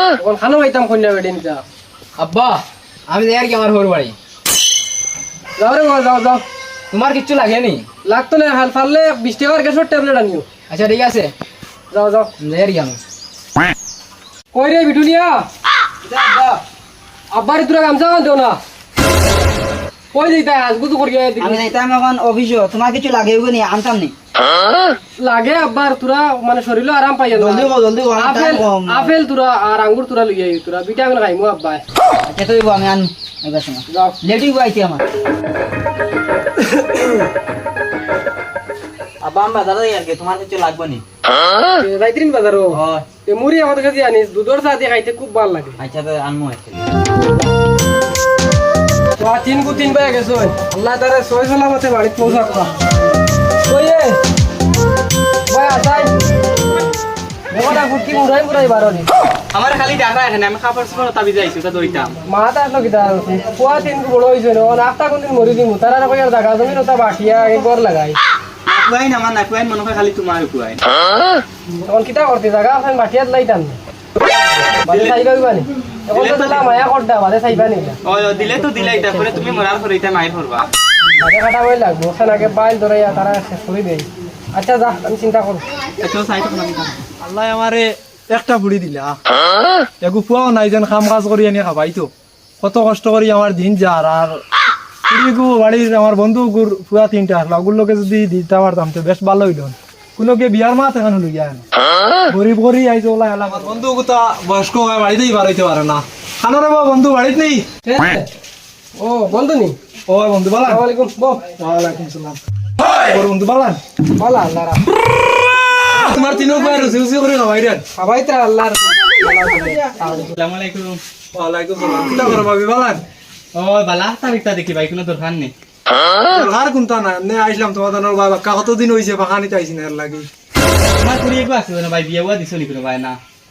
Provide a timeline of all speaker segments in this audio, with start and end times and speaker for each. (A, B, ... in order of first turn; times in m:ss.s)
0:00.2-0:01.6 A
0:02.2-0:04.1 B
0:05.6-0:06.4 A
0:06.9-0:07.9 B
0:08.0-0:10.5 A
0:10.6-0:11.3 B
0:11.9-0:12.3 A
0:12.4-0:13.0 B
0:14.5-0:15.4 A
0:16.1-0:16.6 A
0:17.3-0:18.6 A
0:20.1-0:21.7 A
0:21.4-0:24.1 C
0:25.2-0:31.8 A
0:27.3-0:29.1 C
0:32.2-0:35.0 C
0:33.9-0:34.2 A
0:39.2-0:40.0 C
0:41.7-0:45.8 A
0:45.8-0:46.6 C
0:49.2-0:52.7 A
0:53.6-0:54.2 A
0:55.5-0:56.1 A
0:57.5-0:59.1 A
0:59.5-1:02.1 D
1:02.2-1:08.2 A
1:08.7-1:10.8 D
1:11.8-1:13.8 A
1:14.8-1:15.2 D
1:14.8-1:18.0 A
1:16.1-1:16.8 D
1:18.0-1:20.7 D
1:21.2-1:25.6 A
1:26.0-1:27.0 D
1:27.2-1:29.2 E
1:30.0-1:34.4 E
1:35.1-1:41.6 E
1:42.3-1:47.6 E
1:47.8-1:48.3 A
1:49.0-1:49.8 A
1:50.1-1:50.8 E
1:50.6-1:51.5 A
1:51.6-1:52.4 E
1:53.0-1:53.8 E
1:54.2-1:55.0 A
1:56.0-1:57.8 E
1:58.0-2:00.2 A
2:00.0-2:01.0 D
2:01.3-2:03.0 E
2:03.5-2:05.5 D
2:06.3-2:10.3 E
2:11.0-2:13.2 D